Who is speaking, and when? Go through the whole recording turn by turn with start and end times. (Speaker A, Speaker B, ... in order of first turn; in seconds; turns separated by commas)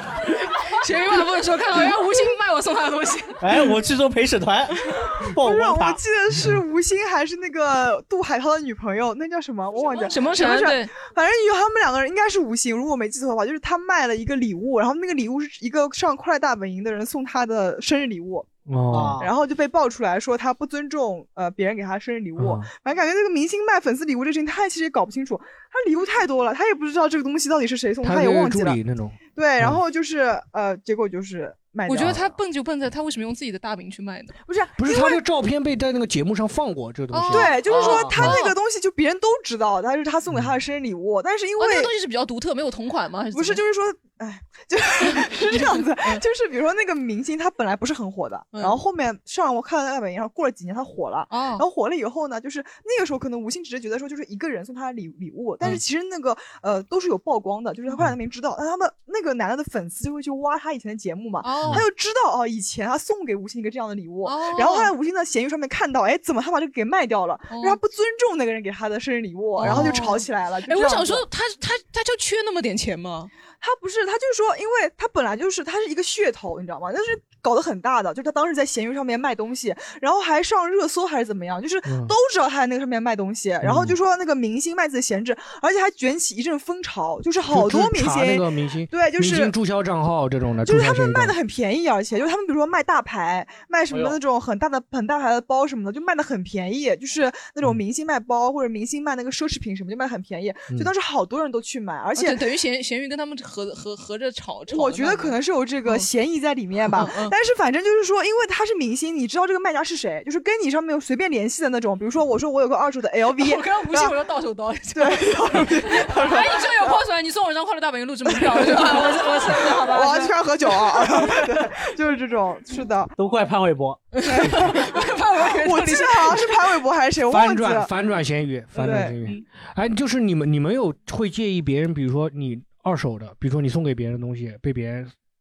Speaker A: 0.7-3.4, Speaker B: 3.4-6.0, Speaker C: 5.4-18.5, Speaker A: 10.0-10.9, Speaker D: 18.7-19.2, Speaker B: 18.9-19.3, Speaker C: 19.2-28.8, Speaker D: 22.4-22.7, Speaker D: 28.0-29.8, Speaker C: 29.3-32.2, Speaker A: 31.9-34.3, Speaker C: 34.5-35.2, Speaker D: 34.8-37.6, Speaker A: 37.1-38.5, Speaker C: 37.3-41.9, Speaker B: 37.7-38.1, Speaker A: 41.6-43.6, Speaker C: 43.3-71.2, Speaker A: 45.1-46.2, Speaker A: 51.3-51.6, Speaker A: 61.4-61.8, Speaker A: 64.2-64.9, Speaker A: 67.5-67.8, Speaker A: 69.6-73.3, Speaker D: 69.7-69.9, Speaker C: 73.6-89.5, Speaker D: 81.8-82.1, Speaker D: 83.6-84.0, Speaker D: 87.5-91.3, Speaker C: 90.6-102.4, Speaker A: 102.2-105.3, Speaker C: 104.7-114.2, Speaker A: 106.9-107.3, Speaker A: 113.4-121.5, Speaker C: 114.9-117.0, Speaker C: 118.3-123.1, Speaker B: 123.2-124.0, Speaker A: 124.1-126.5, Speaker C: 124.2-127.9, Speaker D: 127.3-135.1, Speaker C: 128.7-129.2